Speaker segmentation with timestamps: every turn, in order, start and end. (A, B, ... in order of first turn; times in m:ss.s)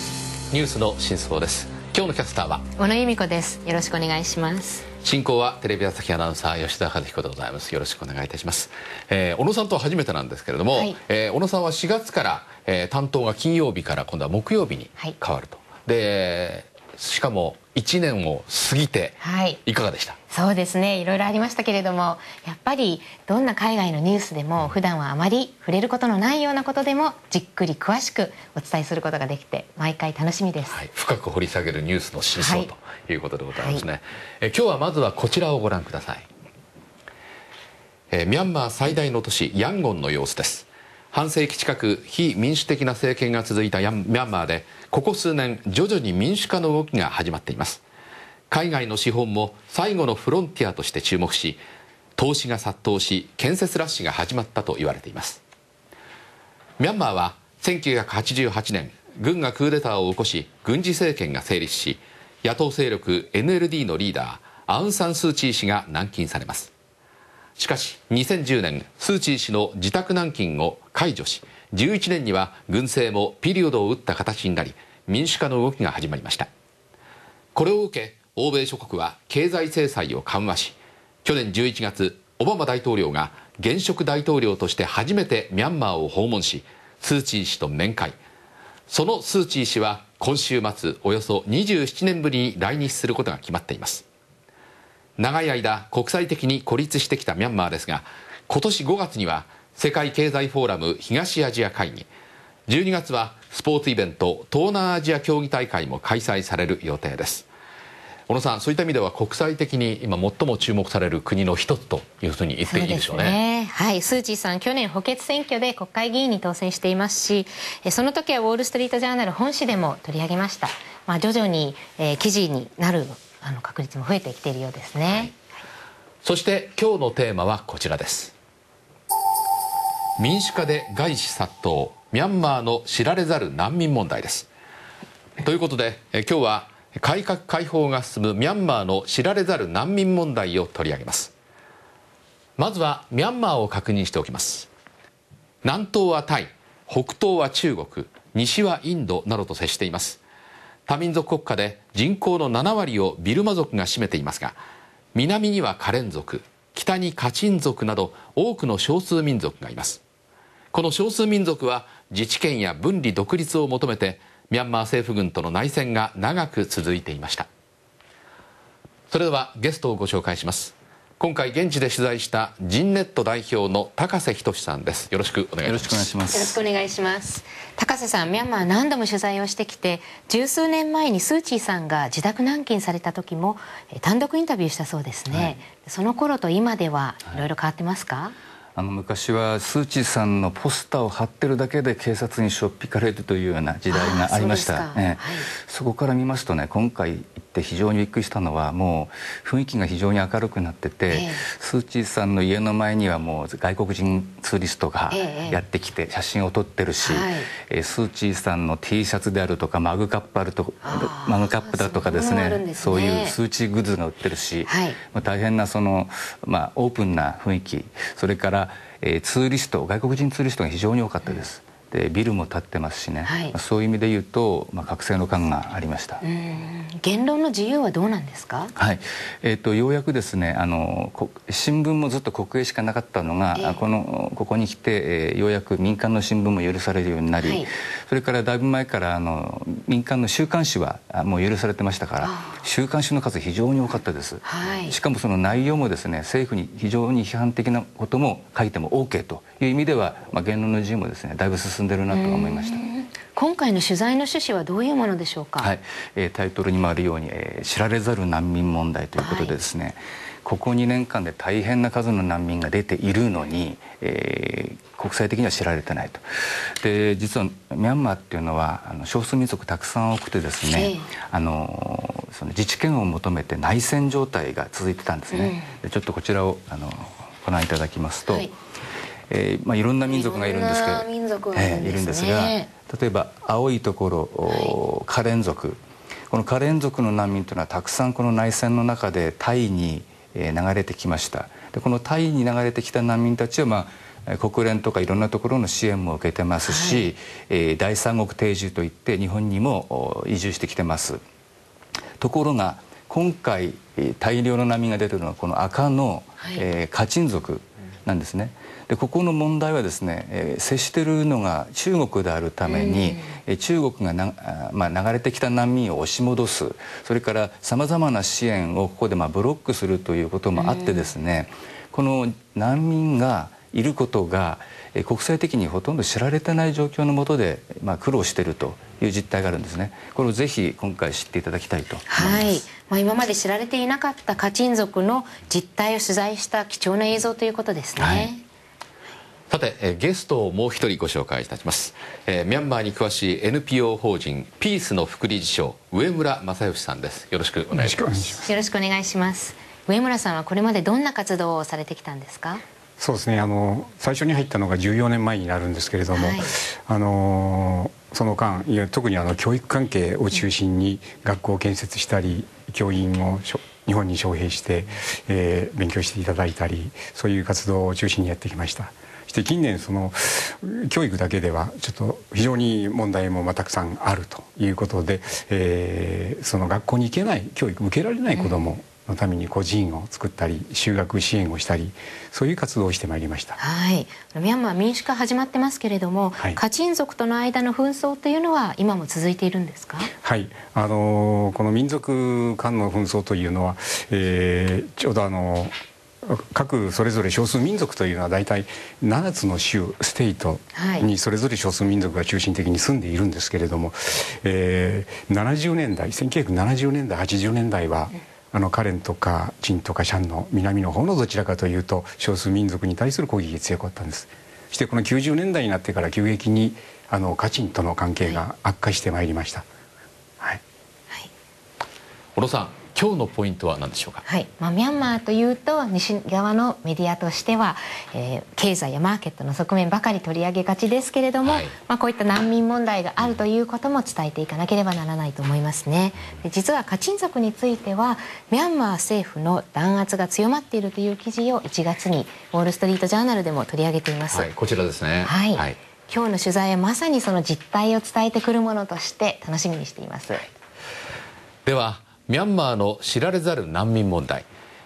0:00.5-0:02.7 A
0:02.8-0:04.9 B
0:05.0-0:20.2 A
0:19.2-0:19.6 B
0:20.3-0:30.8 B
0:30.7-0:36.3 A
0:32.4-0:32.7 B
0:33.6-0:33.8 B
0:38.1-0:47.8 A
0:48.5-0:51.6 A
0:52.2-0:55.4 A
0:56.8-1:06.7 A
1:07.6-1:16.5 A
1:17.6-1:28.2 A
1:28.9-1:34.0 A
1:35.2-1:42.1 A
1:42.7-1:47.5 A
1:48.3-1:53.4 A
1:52.7-2:05.4 B
2:06.2-2:08.3 A
2:10.2-2:14.5 A
2:15.4-2:21.3 A
2:22.6-2:24.7 A
2:25.6-2:30.2 A
2:30.9-2:34.6 A
2:35.1-2:40.0 A
2:40.7-2:47.5 A
2:49.1-2:56.1 A
2:55.6-2:56.6 C
2:56.3-3:08.4 B
3:05.3-3:05.6 C
3:08.8-3:46.2 C
3:13.9-3:15.5 B
3:21.1-3:21.4 B
3:25.1-3:25.6 B
3:27.0-3:27.5 B
3:30.8-3:33.4 B
3:34.7-3:35.0 B
3:43.2-3:43.6 B
3:46.2-3:48.7 B
3:48.8-4:12.9 C
3:53.6-3:53.8 B
3:57.4-3:57.7 B
4:02.2-4:02.6 B
4:04.4-4:05.0 B
4:12.1-4:15.7 B
4:15.6-4:38.5 C
4:19.2-4:19.6 B
4:30.6-4:31.1 B
4:35.3-4:35.7 B
4:38.3-4:38.5 B
4:39.3-5:01.2 C
4:40.1-4:42.7 B
4:44.5-4:44.7 B
4:56.6-4:57.1 B
5:02.2-5:32.6 C
5:06.4-5:06.6 B
5:12.6-5:13.4 B
5:20.6-5:21.1 B
5:32.1-5:38.4 B
5:38.0-5:38.3 A
5:39.5-5:48.3 A
5:47.7-5:48.5 D
5:48.4-5:52.6 B
5:53.0-6:23.6 D
5:56.2-5:56.5 B
6:23.6-6:30.1 B
6:30.2-6:35.7 D
6:36.2-6:59.7 D
6:40.8-6:41.1 B
7:02.4-7:04.2 A
7:04.3-7:24.5 B
7:11.4-7:11.8 A
7:24.3-7:25.8 A
7:25.2-7:30.4 B
7:31.7-7:34.5 A